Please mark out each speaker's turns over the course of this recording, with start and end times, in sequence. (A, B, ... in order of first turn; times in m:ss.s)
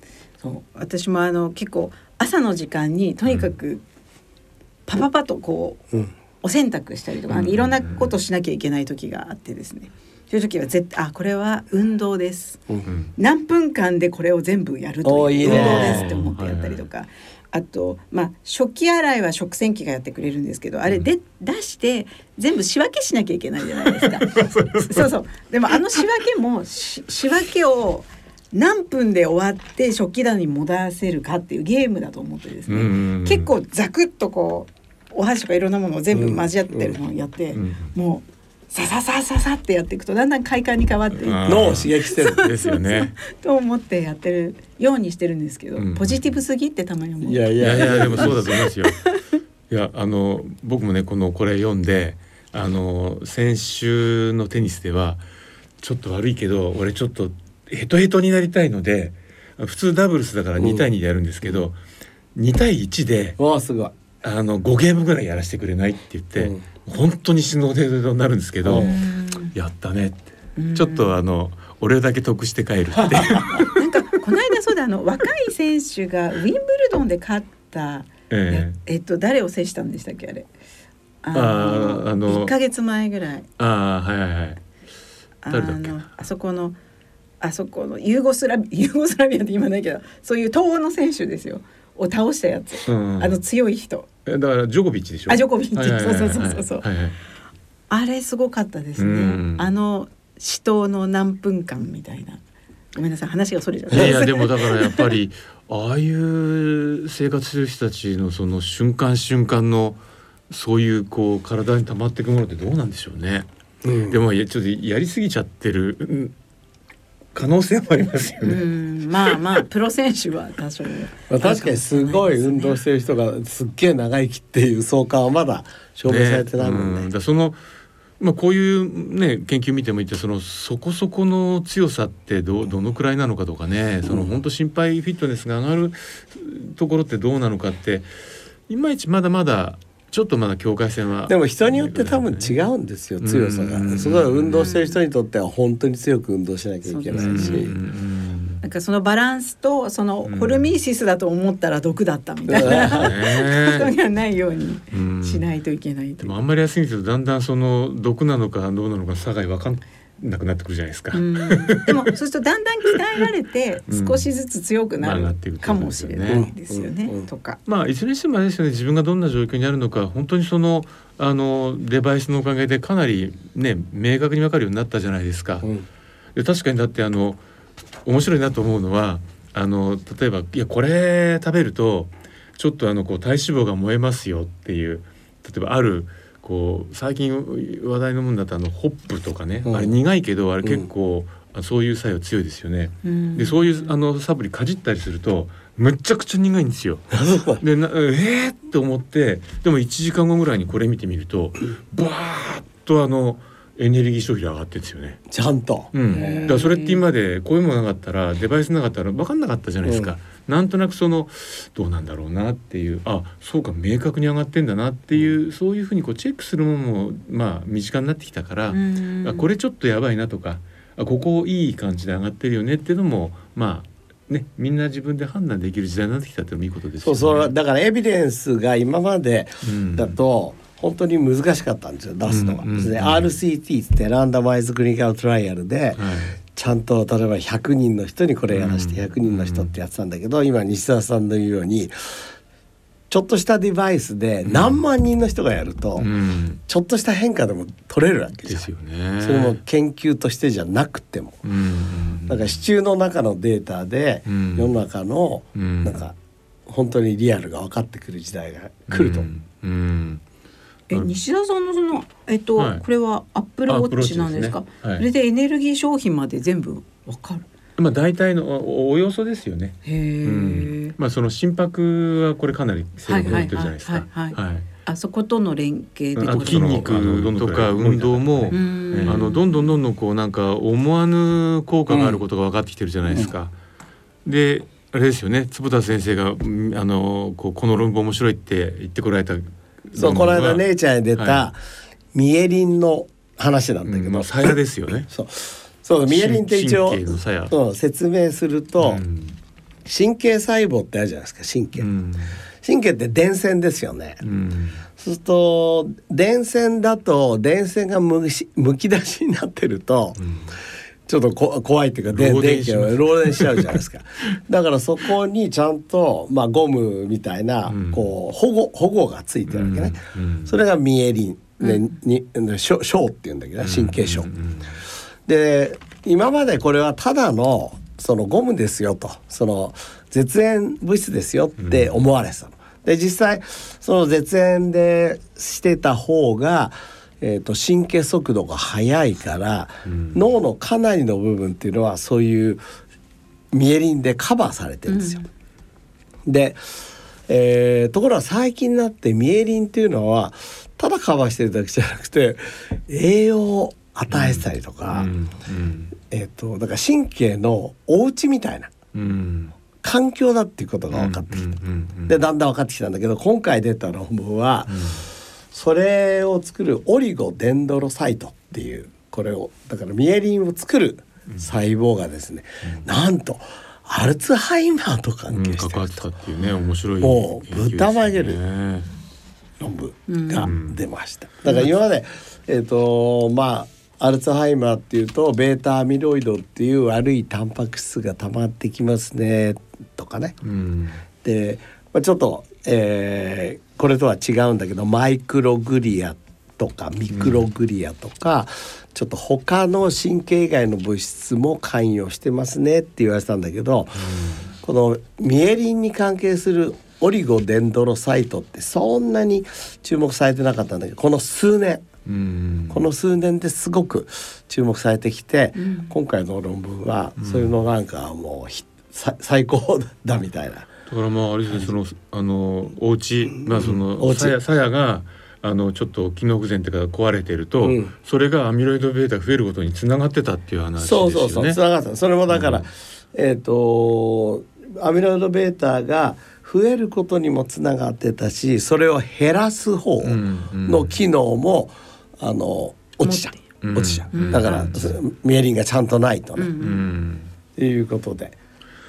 0:00.4-0:03.8 A
0:04.9-0:05.8 A
0:06.4-0:12.6 A
0:07.3-0:08.1 B
0:12.8-0:13.1 B
0:13.2-0:49.1 A
0:15.0-0:16.1 C
0:15.4-0:16.8 B
0:24.0-0:25.1 B
0:32.7-0:33.5 B
0:36.1-0:37.0 C
0:37.5-0:37.9 B
0:41.2-0:43.2 B
0:41.4-0:42.4 C
0:45.8-0:46.3 B
0:47.2-0:48.6 C
0:47.6-0:49.0 B
0:49.7-0:55.2 B
0:55.8-1:01.8 B
1:00.6-1:00.9 C
1:02.3-1:03.4 B
1:03.4-1:04.0 C
1:04.2-1:08.9 B
1:06.4-1:06.6 C
1:08.6-1:09.0 C
1:08.7-1:09.5 A
1:09.5-1:13.7 B
1:10.6-1:11.1 A
1:13.0-1:13.6 C
1:13.7-1:20.5 A
1:18.3-1:18.8 B
1:21.2-1:23.4 A
1:21.3-1:22.5 B
1:23.6-1:24.6 B
1:25.4-1:26.8 A
1:25.5-1:26.1 B
1:27.4-1:34.1 A
1:32.8-1:33.4 B
1:34.2-1:37.2 B
1:35.3-1:36.8 A
1:37.9-1:42.4 A
1:39.0-1:39.7 B
1:42.9-1:45.1 A
1:43.9-1:53.5 B
1:53.8-1:54.2 C
1:54.1-1:56.3 B
1:57.3-1:58.6 B
1:58.4-2:02.8 A
2:01.3-2:07.1 C
2:06.0-2:07.6 B
2:08.2-2:18.1 B
2:14.0-2:14.3 C
2:18.7-2:22.6 B
2:21.3-2:27.7 C
2:23.2-2:24.7 B
2:24.5-2:25.0 A
2:26.8-2:27.7 A
2:27.1-2:28.6 B
2:28.6-2:36.3 A
2:30.2-2:30.7 B
2:32.5-2:33.1 C
2:32.6-2:33.9 B
2:34.9-2:35.4 B
2:36.2-2:42.0 B
2:41.1-2:47.6 A
2:43.9-2:44.3 B
2:45.0-2:46.4 B
2:46.3-2:47.3 C
2:47.6-2:55.7 B
2:55.6-2:55.9 C
2:56.3-2:57.4 B
2:58.0-3:25.2 B
3:09.6-3:09.9 C
3:13.0-3:13.9 A
3:17.1-3:17.6 C
3:25.3-3:26.6 C
3:25.9-3:47.5 B
3:26.1-3:27.0 A
3:29.8-3:30.1 C
3:38.7-3:39.5 A
3:47.0-4:02.2 C
3:49.6-3:50.1 B
3:52.3-3:53.3 B
3:56.0-3:56.4 B
3:58.5-3:59.7 B
4:03.1-4:06.1 C
4:04.4-4:04.8 B
4:06.0-4:06.6 B
4:06.7-4:08.7 C
4:08.4-4:09.6 B
4:09.2-4:11.4 C
4:11.4-4:12.6 B
4:12.3-4:19.3 C
4:14.3-4:14.8 B
4:15.5-4:16.0 B
4:18.9-4:20.2 B
4:20.9-4:27.4 A
4:22.6-4:22.8 B
4:23.7-4:25.0 B
4:27.8-4:34.6 B
4:29.8-4:30.9 A
4:33.0-4:37.0 A
4:36.2-4:43.5 B
4:36.3-4:38.5 C
4:38.5-4:39.8 A
4:41.9-4:42.2 C
4:44.2-4:51.5 B
4:49.9-4:51.6 C
4:52.1-4:59.0 C
4:53.8-4:55.1 B
4:56.1-4:57.5 B
4:58.8-4:59.3 B
4:59.8-5:01.9 C
5:01.8-5:02.4 B
5:02.6-5:04.2 C
5:04.2-5:04.8 B
5:05.0-5:10.2 C
5:10.2-5:10.5 B
5:11.0-5:24.3 C
5:12.1-5:13.7 B
5:17.7-5:18.1 B
5:19.5-5:20.5 B
5:21.6-5:21.9 A
5:23.6-5:24.8 B
5:25.2-5:42.6 C
5:31.6-5:31.9 B
5:39.8-5:40.2 B
5:43.5-5:45.2 C
5:44.9-5:45.3 A
5:46.2-5:46.6 C
5:47.3-5:55.1 C
5:54.1-5:55.9 B
5:56.1-5:58.7 C
5:58.9-5:59.5 B
5:59.8-6:01.5 C
6:00.9-6:02.2 B
6:02.1-6:16.0 C
6:04.7-6:05.0 B
6:15.3-6:18.9 B
6:17.0-6:18.4 C
6:19.6-6:30.3 C
6:20.1-6:20.5 A
6:20.4-6:20.8 B
6:30.4-6:31.0 B
6:31.2-6:51.8 C
6:37.1-6:37.4 B
6:44.0-6:44.4 B
6:52.0-6:52.8 B
6:52.7-7:00.7 C
6:55.6-6:55.9 A
6:57.2-6:57.5 B
7:00.9-7:11.6 B
7:03.5-7:04.3 C
7:07.6-7:07.9 C
7:10.8-7:26.5 C
7:12.3-7:12.6 B
7:20.0-7:20.9 B
7:23.0-7:23.3 A
7:23.6-7:25.0 B
7:24.1-7:24.7 A
7:26.4-7:26.9 A
7:26.6-7:27.3 B
7:27.6-7:28.4 C